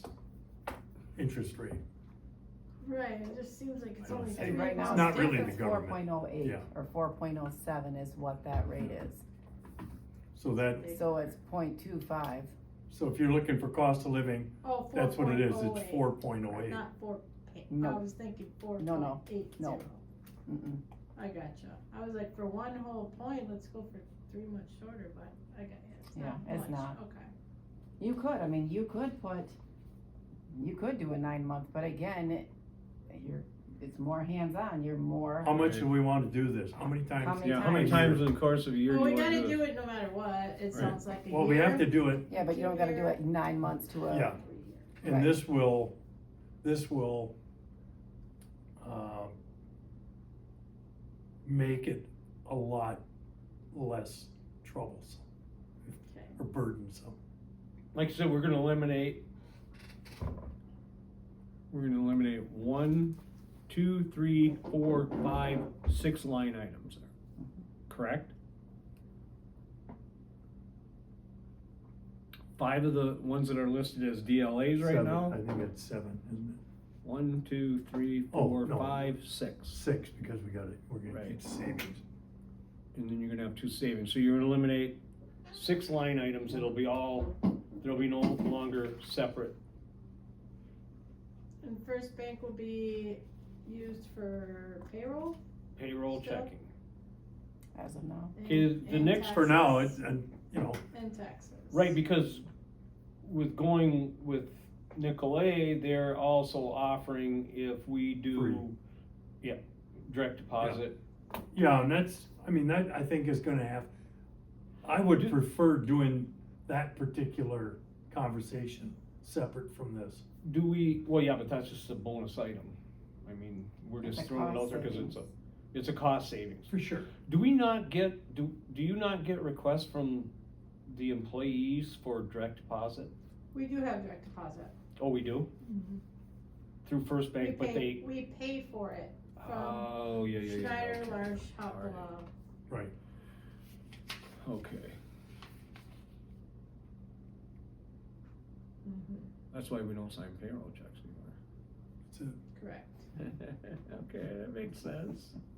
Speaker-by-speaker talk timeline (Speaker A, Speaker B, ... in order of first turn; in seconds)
Speaker A: 1.1-1.8, 4.0-6.7, 10.3-10.9, 12.9-16.8, 35.4-38.3, 41.3-42.3, 44.1-44.4, 45.0-46.0, 46.6-47.3, 48.8-49.4, 51.4-53.0, 53.7-55.2, 55.9-57.2, 74.8-76.6, 78.3-79.1, 79.7-82.0, 99.2-100.8, 108.3-108.6, 111.5-113.9, 114.8-120.2, 126.7-127.1, 152.1-152.4
Speaker B: 2.8-5.7, 10.8-11.1, 14.6-20.0, 21.2-27.3, 38.9-43.2, 44.1-45.0, 56.1-56.4, 91.6-95.4, 96.1-96.5, 98.3-100.0, 100.9-101.9, 133.5-134.7, 135.6-136.0, 137.4-142.3, 148.8-149.3, 152.6-153.1
Speaker C: 4.3-9.2, 10.9-12.5, 17.7-18.1, 18.8-19.8, 20.4-20.8, 26.1-27.0, 28.0-29.6, 30.5-32.5, 33.1-35.6, 37.2-38.2, 42.3-44.4, 45.0-45.4, 97.8-98.3, 124.1-125.2
Speaker D: 35.5-35.9, 37.4-39.6, 57.9-59.2, 61.7-63.2, 63.7-67.1, 67.9-68.3, 72.6-75.4, 77.0-79.8, 81.1-81.4, 82.9-89.6, 95.8-96.7, 98.4-99.4, 101.7-102.4, 103.2-108.8, 109.4-111.0, 120.4-126.7, 127.2-130.3, 130.9-133.1, 135.0-135.5, 136.8-138.1, 139.4-142.1, 144.4-145.0, 149.5-151.4, 153.2-155.4